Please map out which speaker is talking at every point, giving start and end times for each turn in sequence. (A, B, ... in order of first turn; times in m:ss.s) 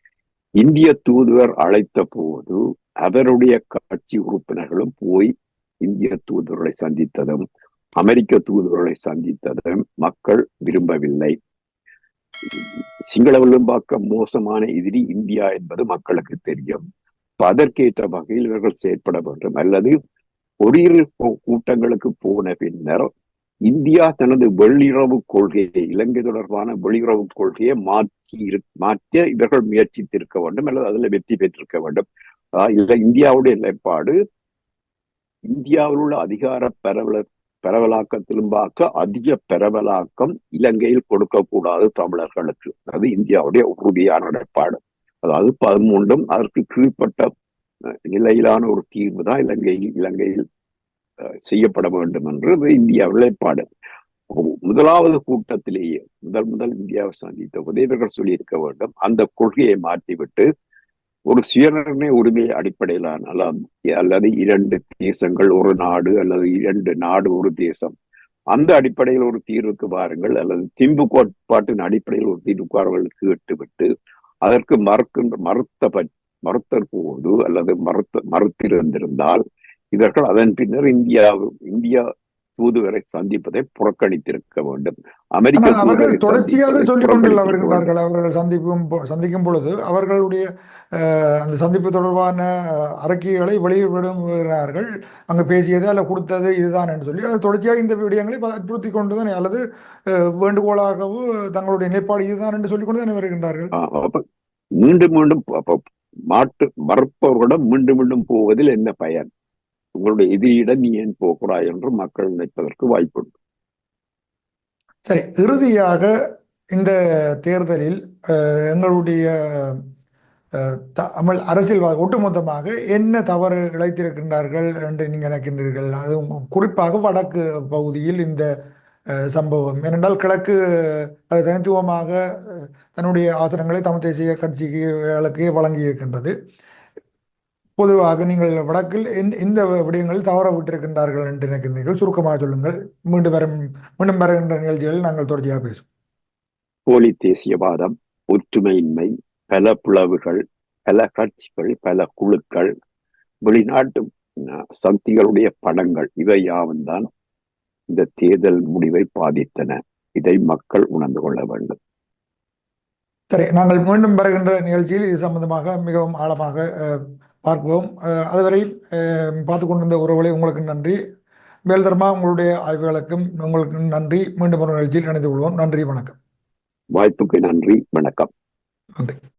0:00.6-0:07.4 A
0:08.0-0:11.4 A
0:12.4-0:16.8 A
0:17.4-0:20.0 A
0:20.6-0:23.1 A
0:23.6-0:32.0 A
0:32.6-0:34.1 A
0:35.5-0:47.3 A
0:48.1-0:50.4 A
0:51.4-0:53.6 A
0:54.3-1:00.5 A
1:01.3-1:07.9 A
1:08.5-1:13.9 A
1:14.4-1:19.4 A
1:19.9-1:27.9 A
1:25.6-1:43.7 B
1:43.7-1:44.2 A
1:44.8-1:49.3 A
1:50.0-1:53.3 A
1:55.0-1:56.1 B
1:56.7-1:59.8 B
2:00.5-2:08.5 B
2:09.3-2:16.3 B
2:17.8-2:25.8 B
2:26.9-2:32.7 A
2:33.4-2:37.1 A
2:37.9-2:41.8 A
2:43.3-2:51.0 B
2:51.7-2:56.2 B
2:56.9-2:58.3 A